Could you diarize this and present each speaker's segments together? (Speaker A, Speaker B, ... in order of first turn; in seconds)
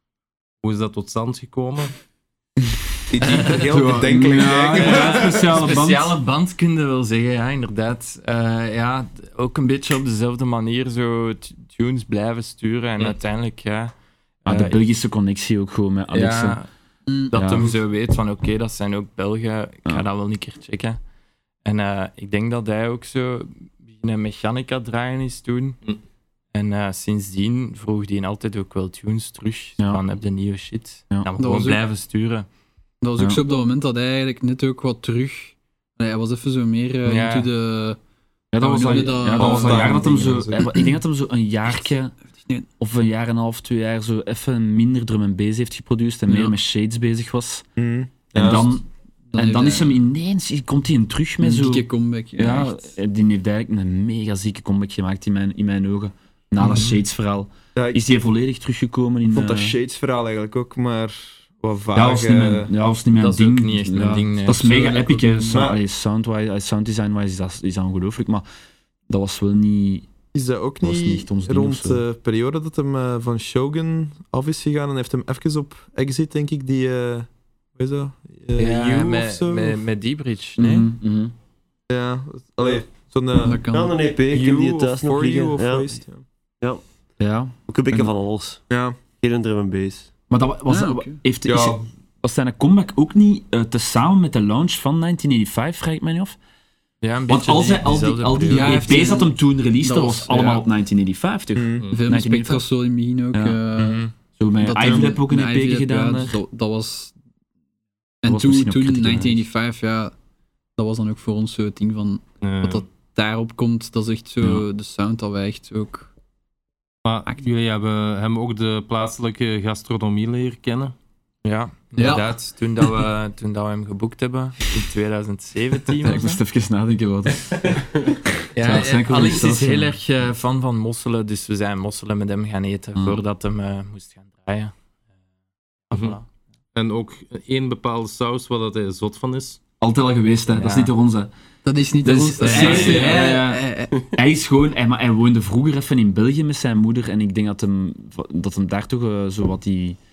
Speaker A: 0.6-1.9, 112.4-112.8, 117.0-120.9, 135.9-136.2, 136.7-139.6, 142.5-143.2
Speaker B: 3.1-5.5, 39.3-40.7, 47.8-48.7, 57.7-58.0, 59.3-62.7, 65.5-65.8, 70.3-79.8, 81.9-83.6, 84.3-86.2, 88.7-89.0, 91.5-91.8, 101.5-101.8
Speaker C: 3.2-4.2, 4.7-13.9, 14.4-14.8, 16.1-16.7, 17.3-21.0, 21.6-25.8, 26.5-32.5, 37.0-37.5, 56.6-56.9, 63.1-65.2, 78.5-80.9, 97.0-99.0, 103.8-104.1, 121.4-126.4, 128.5-134.7, 135.9-136.2, 140.5-140.9, 142.4-143.2
Speaker D: 3.7-6.1, 14.4-16.6, 17.3-17.7, 38.5-42.1, 42.8-47.6, 48.3-48.8, 49.4-59.8, 61.9-68.5, 69.1-70.1, 70.8-72.0, 80.6-81.3, 87.2-88.1, 90.3-96.4, 97.3-102.6, 104.4-106.3, 108.2-109.4, 126.0-127.8, 128.6-129.9, 132.9-133.2, 139.8-141.3, 142.0-150.0
Speaker E: 17.1-17.7, 31.4-31.8, 33.0-38.0, 38.6-39.9, 40.5-40.8, 42.4-42.7, 46.3-46.5, 49.3-50.0, 51.4-52.9, 65.0-65.6, 83.4-83.9, 90.7-91.2, 98.5-100.7, 101.9-104.0, 104.6-107.1, 108.2-110.1, 110.8-116.1, 122.0-122.3, 141.6-143.9
Speaker F: 83.7-86.0, 87.7-88.6, 89.2-90.1